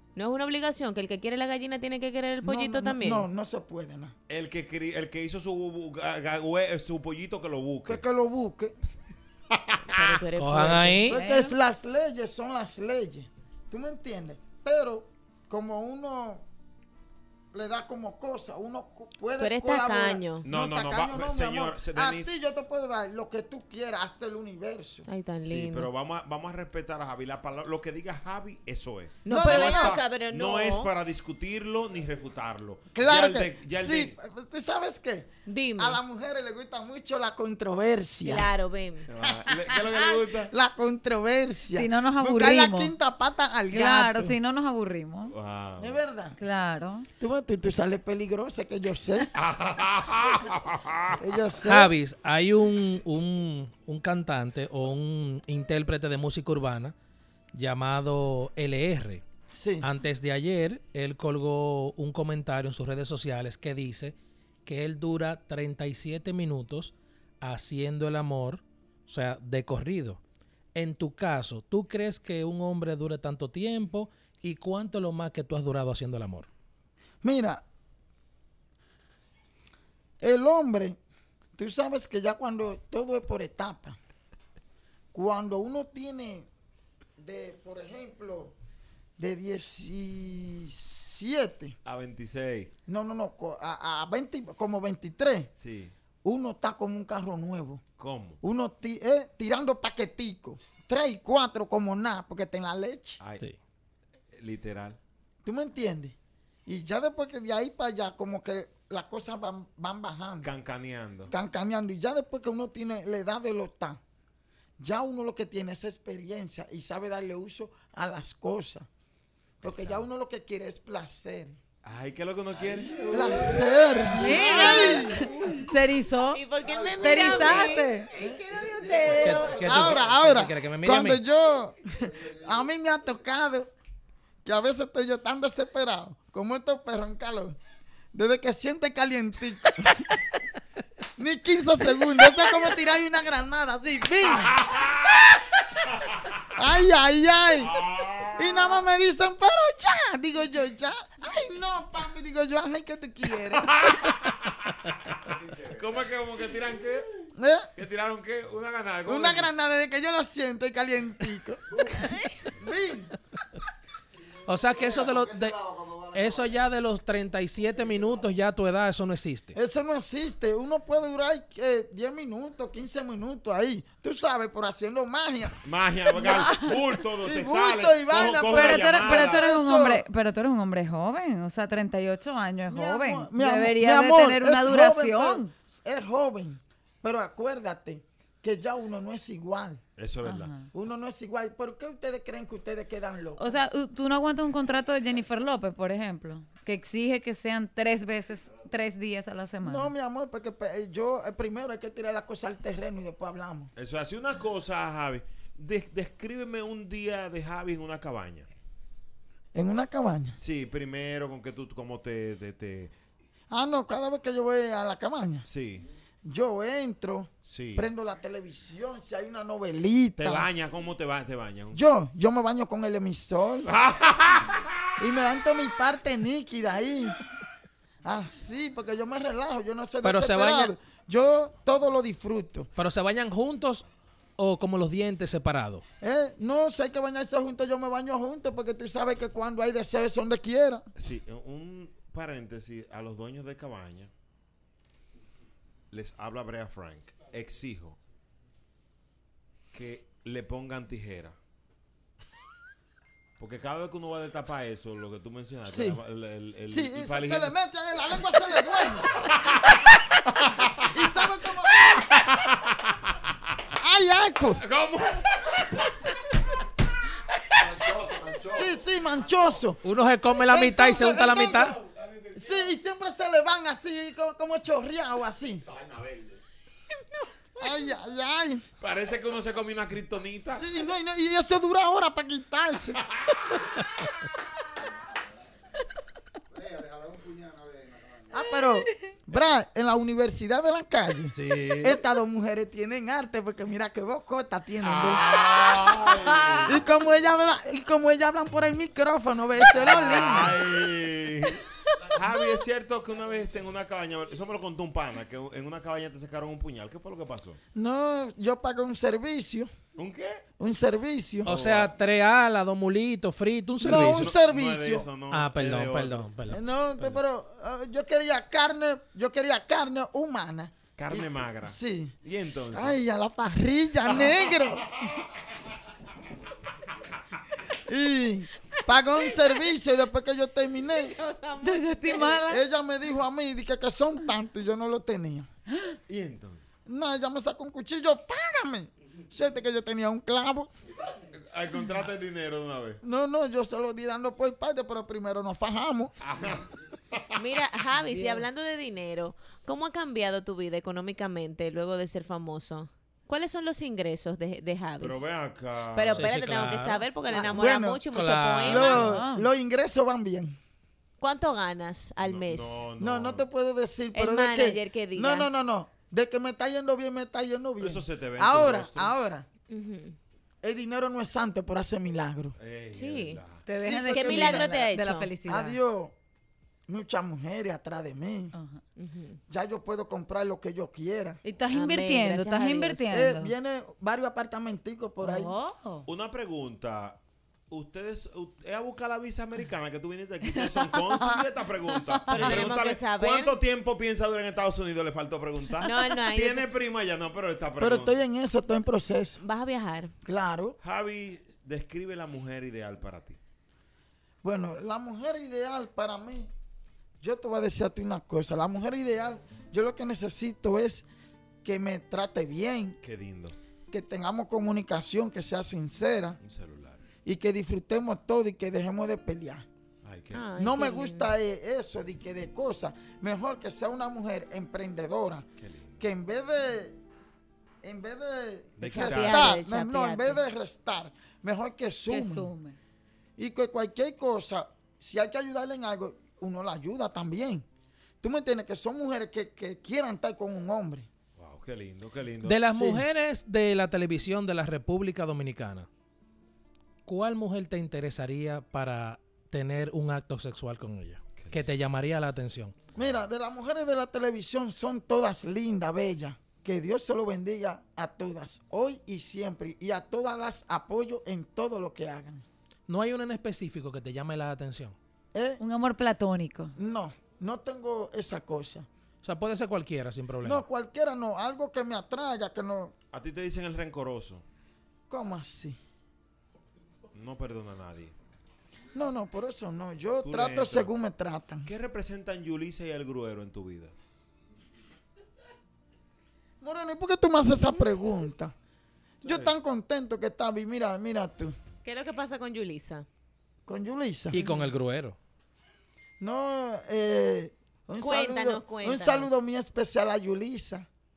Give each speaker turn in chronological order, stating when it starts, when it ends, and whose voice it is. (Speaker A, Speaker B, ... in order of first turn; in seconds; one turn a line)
Speaker A: 0.1-3.3
Speaker B: 2.4-4.1
Speaker C: 4.3-8.0
Speaker B: 7.8-8.7
Speaker C: 9.5-10.1
Speaker A: 9.9-11.1
Speaker D: 10.4-11.2
Speaker B: 11.1-16.4
Speaker E: 11.1-11.6
Speaker B: 17.5-25.1
Speaker A: 19.4-20.4
Speaker C: 20.4-22.4
Speaker A: 25.1-25.9
Speaker C: 25.4-34.1
Speaker A: 29.2-30.9
Speaker B: 29.3-30.0
Speaker B: 32.9-38.5
Speaker A: 35.5-36.0
Speaker A: 38.2-39.1
Speaker C: 39.1-40.5
Speaker B: 39.4-44.4
Speaker E: 41.7-42.9
Speaker E: 43.7-45.3
Speaker C: 45.3-46.0
Speaker B: 45.8-46.4
Speaker E: 46.4-47.1
Speaker B: 47.2-49.3
Speaker C: 49.3-51.2
Speaker B: 51.2-51.9
Speaker D: 51.6-56.9
Speaker D: 57.5-59.2
Speaker B: 59.5-59.9
Speaker D: 59.8-70.2
Speaker D: 70.7-76.5
Speaker B: 77.2-77.6
Speaker B: 80.2-81.0
Speaker B: 81.5-84.0
Speaker B: 85.1-86.5
Speaker B: 87.2-88.5
Speaker B: 89.2-91.8
Speaker C: 91.8-92.7
Speaker B: 92.9-95.5
Speaker C: 95.6-95.9
Speaker B: 96.2-97.8
Speaker C: 98.0-98.4
Speaker B: 98.4-103.2
Speaker C: 103.2-103.5
Speaker C: 104.3-105.0
Speaker B: 105.4-110.5
Speaker C: 110.4-111.3
Speaker B: 111.3-114.0
Speaker B: 114.8-118.9
Speaker B: 119.6-121.6
Speaker C: 119.6-120.1
Speaker C: 121.8-123.6
Speaker B: 123.0-125.3
Speaker E: 124.2-126.4
Speaker A: 126.3-130.0
Speaker E: 127.0-128.1
Speaker D: 129.2-131.2
Speaker B: 129.5-133.7
Speaker B: 134.4-137.6
Speaker B: 138.1-140.1
Speaker B: 141.2-144.6
Speaker C: 144.2-145.3
Speaker C: 146.0-146.3
Speaker B: 146.6-147.7
Speaker C: 147.6-148.8
Speaker B: 148.4-153.7
Speaker C: 153.5-157.2
Speaker B: 157.4-157.7
Speaker C: 157.8-159.5
Speaker B: 159.1-161.9
Speaker B: 162.5-163.1
Speaker D: 164.4-169.5
Speaker B: 169.5-175.6
Speaker C: 175.6-179.5
Speaker E: 176.3-176.7
Speaker B: 177.2-180.0
Speaker E: 178.5-185.5
Speaker B: 182.7-189.8
Speaker C: 190.0-190.5
Speaker E: 190.2-190.7
Speaker B: 190.7-193.6
Speaker E: 193.4-199.9
Speaker B: 199.6-203.7
Speaker C: 203.7-208.5
Speaker B: 209.5-210.4
Speaker C: 210.3-212.9
Speaker B: 213.5-215.4
Speaker C: 215.4-215.9
Speaker B: 216.2-220.5
Speaker C: 217.4-217.9
Speaker C: 220.2-221.8
Speaker B: 221.7-223.7
Speaker C: 223.6-224.9
Speaker B: 225.0-227.2
Speaker B: 228.0-232.7
Speaker D: 230.0-230.7
Speaker D: 232.8-233.8
Speaker D: 234.4-235.8
Speaker B: 236.0-240.9
Speaker C: 240.9-244.1
Speaker C: 245.9-248.0
Speaker C: 249.7-251.4
Speaker C: 253.4-257.5
Speaker B: 255.7-256.0
Speaker B: 256.7-259.2
Speaker C: 259.1-263.2
Speaker B: 260.9-262.1
Speaker B: 263.8-264.6
Speaker C: 264.6-265.9
Speaker B: 268.4-269.8
Speaker D: 269.8-271.8
Speaker B: 270.5-271.8
Speaker B: 272.3-275.7
Speaker B: 277.6-278.6
Speaker C: 278.8-280.6
Speaker B: 280.5-283.0
Speaker C: 283.1-283.4
Speaker B: 288.3-295.2
Speaker C: 291.3-292.0
Speaker C: 294.8-296.9
Speaker B: 296.6-300.6
Speaker C: 299.7-307.6
Speaker B: 307.7-309.7
Speaker C: 309.9-310.4
Speaker B: 310.6-311.5
Speaker D: 311.4-314.3
Speaker C: 311.4-311.9
Speaker B: 313.8-315.1
Speaker C: 313.9-316.4
Speaker D: 315.3-317.2
Speaker B: 316.5-322.2
Speaker C: 320.9-323.0
Speaker B: 322.7-324.9
Speaker C: 324.1-324.5
Speaker B: 327.9-331.1
Speaker A: 328.9-329.7
Speaker A: 330.9-332.4
Speaker E: 331.6-332.6
Speaker B: 332.5-335.5
Speaker E: 335.7-335.9
Speaker C: 336.1-336.6
Speaker B: 336.9-340.7
Speaker C: 341.3-343.0
Speaker B: 343.0-346.1
Speaker C: 346.2-347.3
Speaker A: 347.3-355.3
Speaker E: 348.1-348.4
Speaker C: 355.0-356.3
Speaker A: 355.9-359.1
Speaker D: 356.1-357.1
Speaker B: 357.3-358.0
Speaker D: 358.1-359.0
Speaker B: 358.6-360.6
Speaker E: 358.8-359.5
Speaker A: 361.2-362.9
Speaker C: 362.2-363.5
Speaker B: 363.0-369.5
Speaker A: 364.1-365.5
Speaker C: 367.8-369.1
Speaker A: 369.7-370.2
Speaker B: 370.6-372.6
Speaker C: 372.6-373.7
Speaker A: 372.9-373.4
Speaker E: 373.7-375.8
Speaker B: 373.7-374.8
Speaker A: 374.1-375.3
Speaker B: 375.4-376.1
Speaker B: 376.9-378.5
Speaker E: 378.5-378.8
Speaker A: 379.0-379.4
Speaker B: 379.5-381.4
Speaker E: 381.4-383.5
Speaker A: 381.7-383.1
Speaker B: 383.1-385.5
Speaker E: 385.2-386.1
Speaker C: 386.1-387.2
Speaker C: 387.7-398.2
Speaker E: 390.5-392.7
Speaker A: 392.3-393.6
Speaker A: 395.8-396.7
Speaker B: 397.8-399.4
Speaker A: 399.4-400.1
Speaker B: 400.2-400.8
Speaker C: 400.8-403.4
Speaker B: 404.4-406.5
Speaker B: 407.2-411.1
Speaker B: 411.6-413.0
Speaker C: 413.0-413.6
Speaker B: 413.9-416.4
Speaker C: 416.4-417.0
Speaker B: 417.2-419.6
Speaker C: 420.0-420.5
Speaker A: 420.3-421.3
Speaker B: 420.6-425.4
Speaker C: 425.6-426.1
Speaker B: 426.0-427.0
Speaker B: 427.8-432.5
Speaker C: 428.8-429.6
Speaker A: 428.8-430.4
Speaker E: 432.1-432.8
Speaker B: 433.4-437.6
Speaker B: 438.2-441.1
Speaker C: 441.4-442.6
Speaker D: 442.4-445.9
Speaker B: 442.7-443.0
Speaker D: 447.1-452.7
Speaker C: 452.9-453.3
Speaker B: 453.0-462.4
Speaker D: 462.9-464.9
Speaker B: 465.3-465.6
Speaker E: 465.6-466.7
Speaker B: 466.8-468.9
Speaker D: 469.2-470.6
Speaker B: 470.4-472.9
Speaker C: 473.1-474.4
Speaker B: 475.1-475.8
Speaker C: 477.1-478.1
Speaker B: 478.9-481.7
Speaker C: 480.2-480.9
Speaker C: 481.6-483.9
Speaker B: 486.6-488.5
Speaker B: 489.2-491.5
Speaker C: 489.2-489.6
Speaker A: 491.8-493.1
Speaker B: 493.6-494.4
Speaker D: 494.3-495.2
Speaker E: 494.3-494.7
Speaker B: 496.2-500.9
Speaker A: 498.0-499.4